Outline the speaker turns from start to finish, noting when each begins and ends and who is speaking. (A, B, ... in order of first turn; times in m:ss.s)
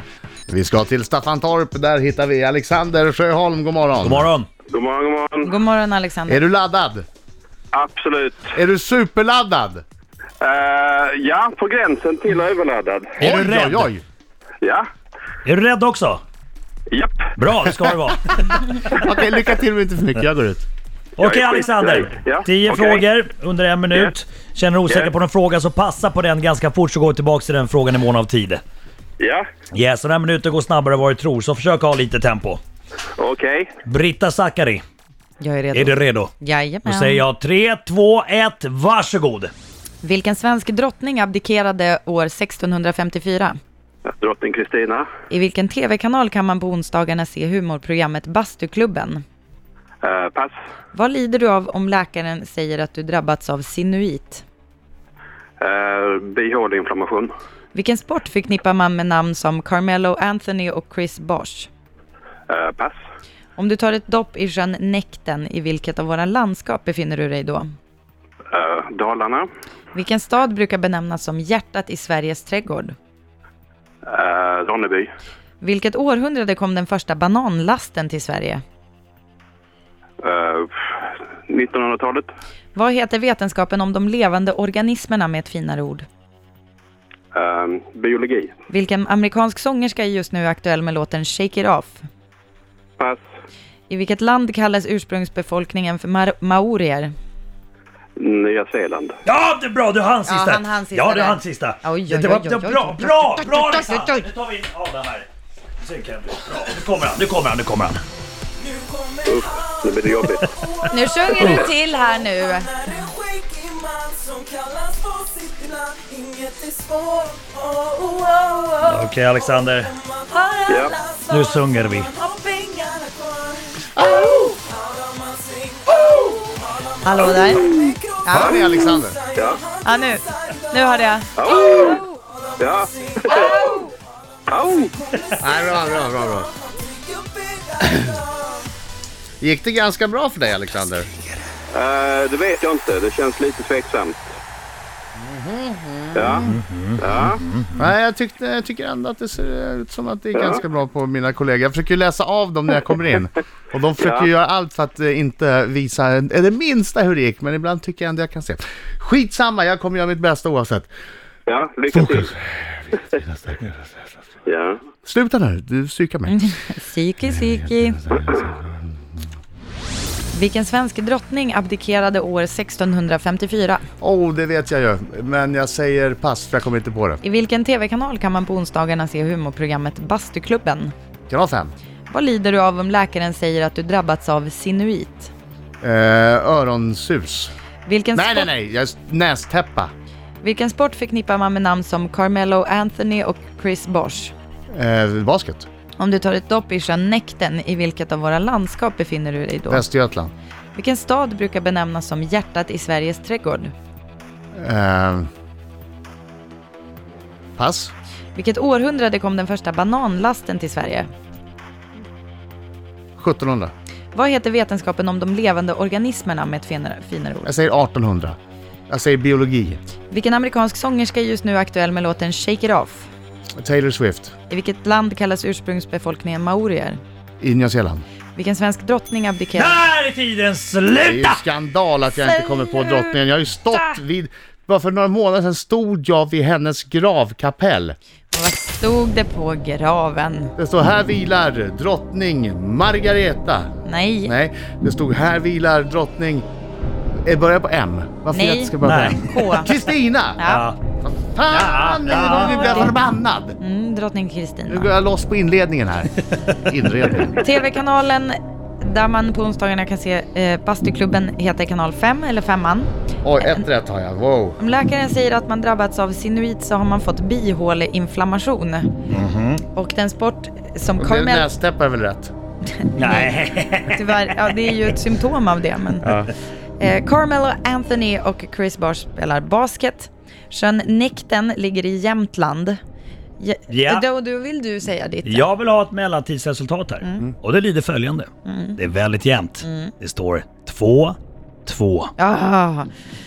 0:00.5-0:04.3 A
0:04.0-0:04.5 B
0:04.7-0:05.5 C
0:05.4-0:06.4 D
0:06.3-0:07.0 A
0:07.7-0:08.5 C
0:08.5-0:09.8 A
0:10.4-0:13.2 C
0:13.2-0:13.9 B
0:13.2-0:14.0 A
0:15.4-0:16.2 B
0:16.9-0:17.3 C
0:17.4-0:19.0 B
0:18.8-0:20.6 A
0:21.2-0:28.6 B
0:21.2-0:23.0 C
0:29.2-0:29.4 C
0:29.7-0:32.6 B
0:33.2-0:33.7 C
0:33.8-0:34.8 B
0:35.4-0:37.2 D
0:35.7-0:36.3 B
0:36.8-0:39.5 B
0:40.0-0:43.6 D
0:44.0-0:45.1 C
0:45.3-0:49.2 D
0:50.0-0:50.5 C
0:50.9-0:54.4 D
0:55.6-0:57.3 C
0:57.7-1:01.7 D
1:02.5-1:03.0 C
1:03.6-1:07.7 D
1:08.5-1:09.5 C
1:09.9-1:12.9 D
1:14.1-1:15.1 C
1:15.6-1:18.6 D
1:20.2-1:20.8 C
1:21.5-1:22.3 C
1:22.7-1:26.0 D
1:27.3-1:28.5 C
1:28.7-1:32.0 D
1:33.9-1:37.1 D
1:38.2-1:39.2 C
1:39.2-1:45.3 B
1:40.2-1:44.2 D
1:45.8-1:48.0 B
1:49.2-1:50.5 C
1:50.8-1:53.1 D
1:51.3-1:51.6 B
1:51.3-1:51.6 C
1:53.5-1:57.6 E
1:58.0-1:58.8 D
1:58.8-2:00.0 B
2:00.3-2:01.3 D
2:00.7-2:01.0 C
2:01.3-2:02.1 B
2:02.2-2:03.0 D
2:04.0-2:04.5 A
2:04.7-2:05.7 E
2:07.0-2:08.6 D
2:07.2-2:08.6 C
2:08.3-2:09.2 A
2:09.3-2:09.6 C
2:09.8-2:12.2 D
2:11.3-2:12.0 C
2:12.6-2:13.7 C
2:13.3-2:13.9 D
2:14.5-2:15.2 C
2:15.4-2:16.5 A
2:19.4-2:21.1 A
2:21.7-2:24.3 C
2:25.2-2:26.6 A
2:26.1-2:26.4 C
2:26.4-2:27.9 B
2:27.0-2:27.4 C
2:27.8-2:40.9 A
2:34.0-2:34.3 C
2:41.5-2:42.3 C
2:41.9-2:44.1 A
2:44.4-2:44.8 C
2:45.0-2:46.5 A
2:46.3-2:48.0 D
2:47.6-2:48.9 A
2:50.3-2:53.8 D
2:54.0-2:57.2 A
2:57.2-3:00.9 D
3:01.3-3:01.7 A
3:02.1-3:05.3 D
3:05.8-3:07.5 A
3:07.8-3:08.5 D
3:08.1-3:09.9 A
3:10.4-3:14.3 D
3:14.7-3:15.7 A
3:16.0-3:19.8 D
3:19.7-3:20.3 A
3:20.7-3:23.7 D
3:24.5-3:25.3 A
3:27.6-3:27.9 A
3:28.3-3:31.1 D
3:33.2-3:33.7 A
3:34.1-3:37.6 D
3:37.4-3:38.4 A
3:38.9-3:39.8 A
3:40.1-3:43.1 D
3:43.6-3:44.3 A
3:44.5-3:47.0 D
3:47.4-3:48.0 A
3:48.3-3:49.8 D
3:49.6-3:51.4 B
3:51.0-3:58.0 A
3:52.0-3:54.0 D
3:58.3-4:00.5 D
4:00.6-4:03.7 A
4:03.8-4:04.3 D
4:04.2-4:06.4 A
4:07.2-4:10.4 A
4:08.3-4:09.7 D
4:08.8-4:09.6 B
4:10.4-4:10.6 D
4:10.4-4:10.8 B
4:11.0-4:13.6 A
4:11.5-4:12.8 B
4:12.1-4:12.9 D
4:13.6-4:14.9 D
4:14.7-4:17.5 A
4:17.4-4:23.6 D
4:23.2-4:24.6 A
4:24.6-4:28.9 D
4:29.1-4:29.6 B
4:29.7-4:31.5 D
4:31.0-4:32.3 A
4:32.8-4:33.3 D
4:33.0-4:34.3 B
4:33.9-4:36.1 D
4:36.0-4:36.3 A
4:36.8-4:42.8 D
4:43.4-4:45.5 D
4:43.7-4:44.0 B
4:45.2-4:52.1 B
4:47.0-4:47.3 D
4:48.4-4:48.8 D
4:49.6-4:49.9 D
4:52.2-4:52.9 D